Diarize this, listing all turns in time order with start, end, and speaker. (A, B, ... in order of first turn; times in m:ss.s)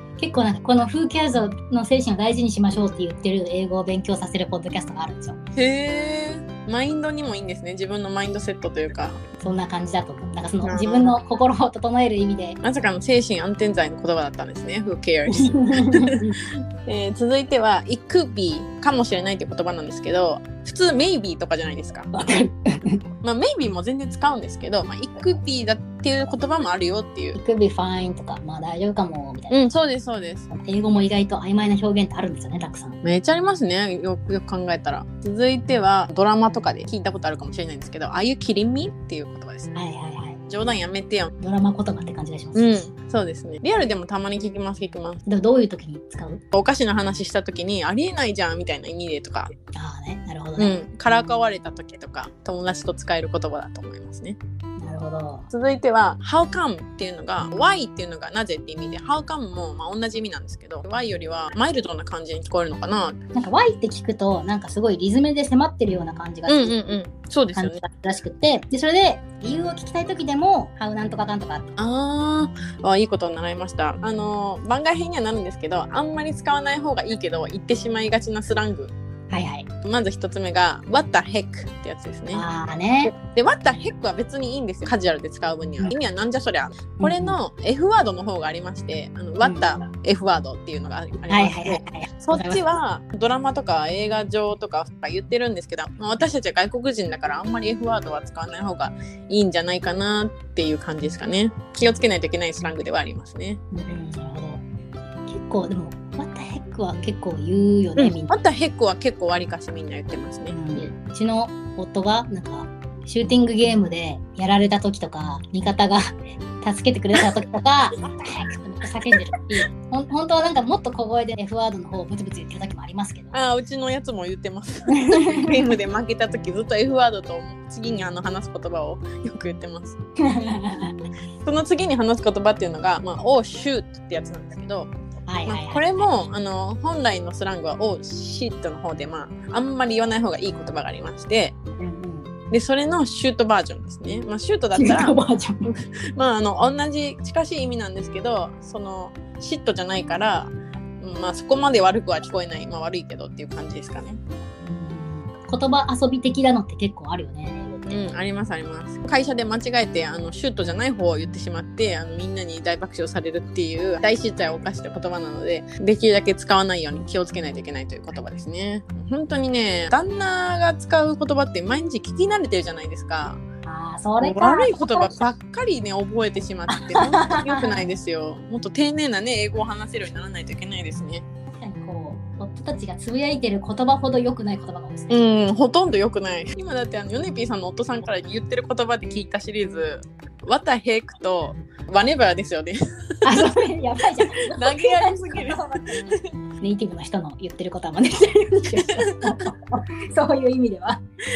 0:00.2-0:05.4 A
0:05.6-0:09.2 B
0:09.4-0:12.6 A
0:10.6-0:11.2 B
0:12.6-0:16.2 B
0:15.3-0:16.4 A
0:16.8-0:22.1 B
0:22.1-0:23.0 A
0:23.2-0:27.4 B
0:27.4-0:29.6 A
0:29.5-0:30.5 B
0:30.5-0:33.0 A
0:33.0-0:39.7 B
0:39.8-0:40.4 A
0:40.5-0:41.3 B
0:41.4-0:42.9 A
0:42.6-0:45.2 B
0:45.3-0:46.4 A
0:46.5-0:49.5 B
0:49.7-0:50.8 A
0:50.6-0:54.4 B
0:54.8-0:55.5 A
0:55.5-1:03.2 B
1:03.4-1:06.8 A
1:06.5-1:07.8 B
1:07.6-1:11.8 A
1:11.8-1:18.9 B
1:19.3-1:19.7 A
1:19.8-1:22.4 B
1:22.3-1:23.1 A
1:23.0-1:43.6 B
1:27.0-1:27.4 A
1:31.3-1:32.6 A
1:43.7-1:44.6 A
1:45.3-1:48.3 A
1:48.0-1:50.6 B
1:50.5-2:03.4 A
2:03.3-2:10.0 B
2:04.9-2:05.5 A
2:10.2-2:11.0 A
2:11.4-2:14.9 B
2:15.3-2:16.1 A
2:15.5-2:21.6 B
2:21.8-2:22.3 A
2:22.5-2:34.2 B
2:24.8-2:25.7 A
2:34.6-2:38.0 A
2:37.9-2:53.4 B
2:53.6-2:55.2 A
2:54.2-3:01.2 B
2:56.7-2:57.9 A
3:01.6-3:05.3 A
3:05.1-3:12.8 B
3:13.2-3:21.0 A
3:14.5-3:16.0 B
3:18.8-3:19.3 B